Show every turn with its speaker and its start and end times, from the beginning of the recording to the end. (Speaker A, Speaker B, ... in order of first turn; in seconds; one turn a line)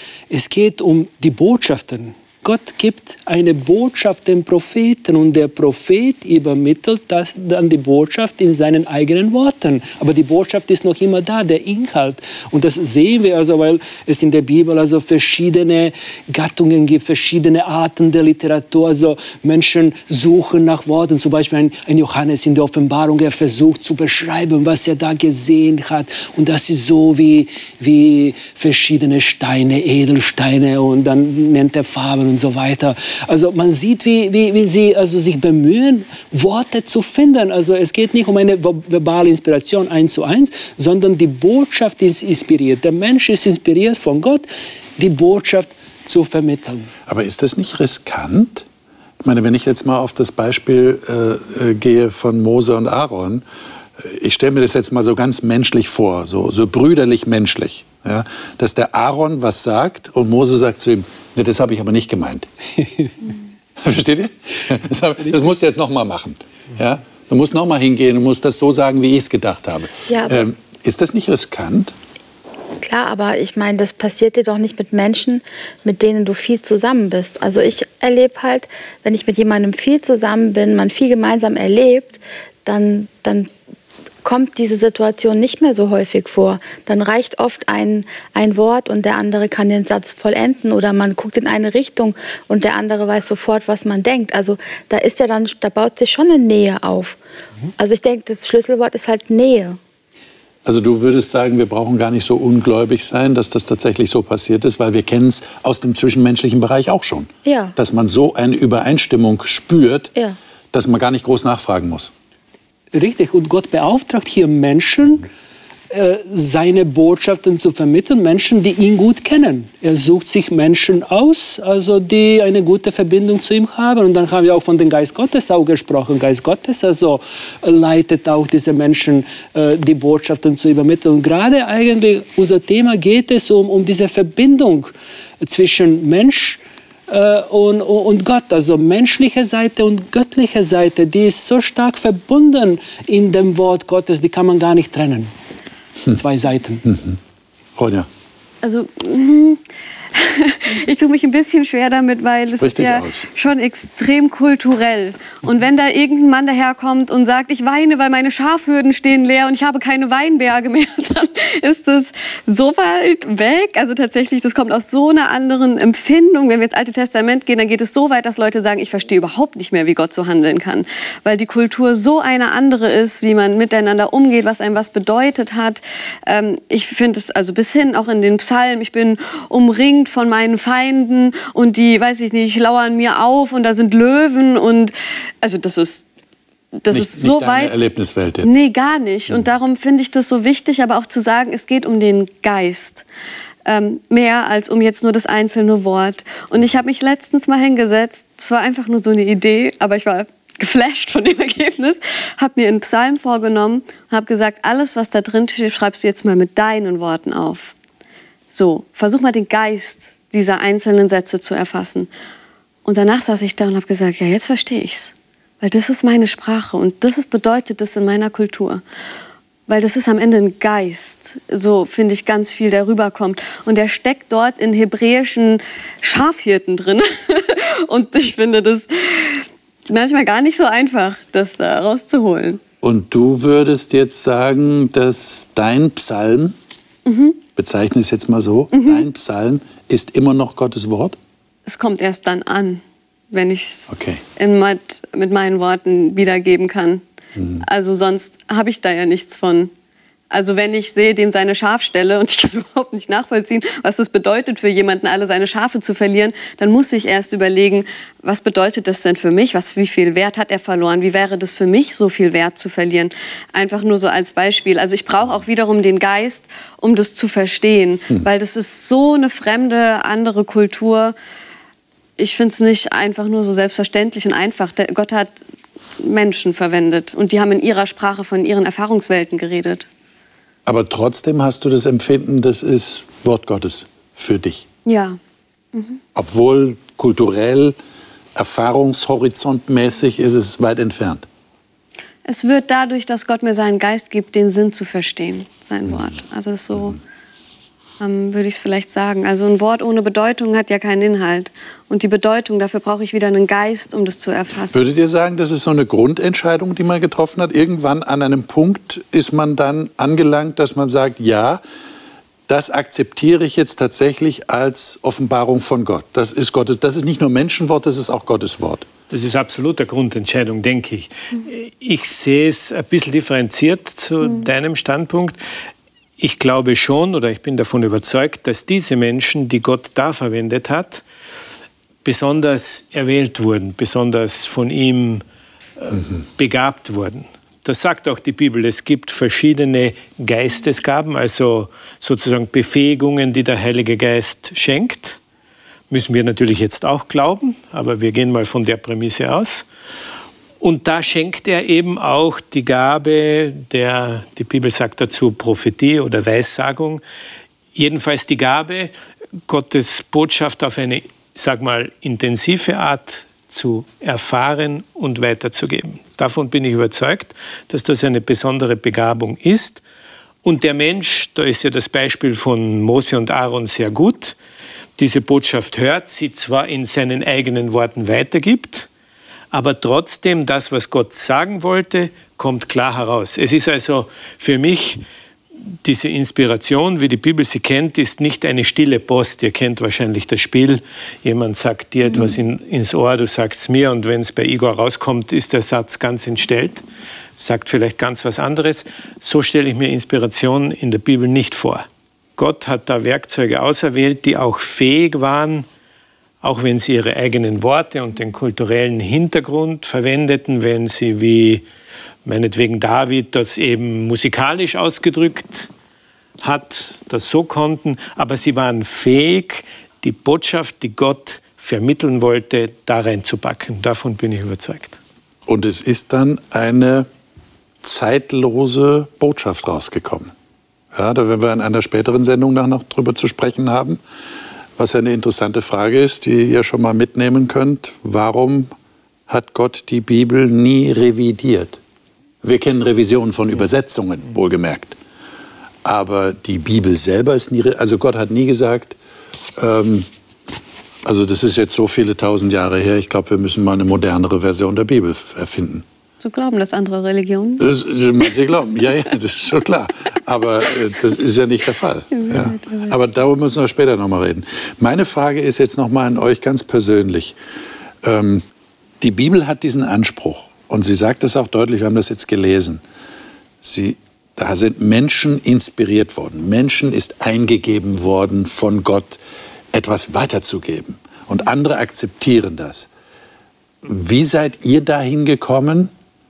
Speaker A: 0.3-44.5
Speaker A: 45.0-46.9
Speaker B: 47.1-48.7
Speaker B: 49.2-53.4
Speaker B: 54.0-62.5
Speaker A: 62.8-63.1
Speaker B: 63.8-71.9
Speaker C: 70.1-70.4
Speaker C: 72.8-83.5
Speaker C: 84.2-97.2
Speaker C: 97.8-99.8
Speaker B: 100.6-110.1
Speaker C: 107.4-107.8
Speaker B: 110.7-112.1
Speaker A: 112.9-115.3
Speaker A: 115.9-145.3
Speaker A: 146.1-146.8
Speaker B: 146.8-147.2
Speaker B: 147.8-148.1
Speaker D: 148.6-149.6
Speaker D: 150.1-186.0
Speaker B: 152.6-153.3
Speaker D: 186.8-187.8
Speaker B: 186.9-188.6
Speaker D: 188.4-193.0
Speaker D: 193.6-207.7
Speaker D: 208.5-212.1
Speaker D: 212.8-218.8
Speaker D: 219.7-232.6
Speaker B: 232.8-236.6
Speaker D: 237.1-237.4
Speaker B: 237.6-241.2
Speaker D: 238.7-239.0
Speaker D: 241.7-247.0
Speaker B: 243.9-244.2
Speaker B: 247.3-247.6
Speaker D: 247.6-249.7
Speaker D: 250.3-271.1
Speaker D: 272.2-275.4
Speaker D: 276.0-279.9
Speaker B: 280.6-284.6
Speaker D: 284.9-285.2
Speaker D: 285.7-286.0
Speaker B: 286.1-287.8
Speaker B: 288.3-291.2
Speaker D: 292.2-297.0
Speaker D: 298.0-304.8
Speaker B: 304.7-311.6
Speaker B: 312.5-318.9
Speaker E: 319.1-325.4
Speaker E: 326.2-331.0
Speaker E: 332.0-335.2
Speaker E: 335.8-345.2
Speaker E: 345.9-349.6
Speaker E: 350.6-357.0
Speaker E: 357.7-358.9
Speaker E: 359.5-369.8
Speaker E: 370.4-374.4
Speaker E: 375.0-378.9
Speaker E: 379.5-385.0
Speaker E: 385.8-396.8
Speaker E: 397.4-401.8
Speaker E: 402.4-405.6
Speaker E: 406.4-411.6
Speaker E: 412.2-415.7
Speaker E: 416.4-425.0
Speaker B: 425.4-427.1
Speaker B: 427.8-430.3
Speaker B: 430.9-434.0
Speaker B: 434.8-438.7
Speaker B: 439.3-441.8
Speaker B: 442.4-445.0
Speaker B: 445.8-449.0
Speaker B: 449.6-450.1
Speaker B: 451.0-455.8
Speaker D: 456.2-457.7
Speaker B: 457.6-467.4
Speaker D: 462.1-463.0
Speaker B: 468.0-468.4
Speaker B: 469.0-472.8
Speaker B: 473.6-479.2
Speaker B: 479.7-482.9
Speaker B: 483.8-485.9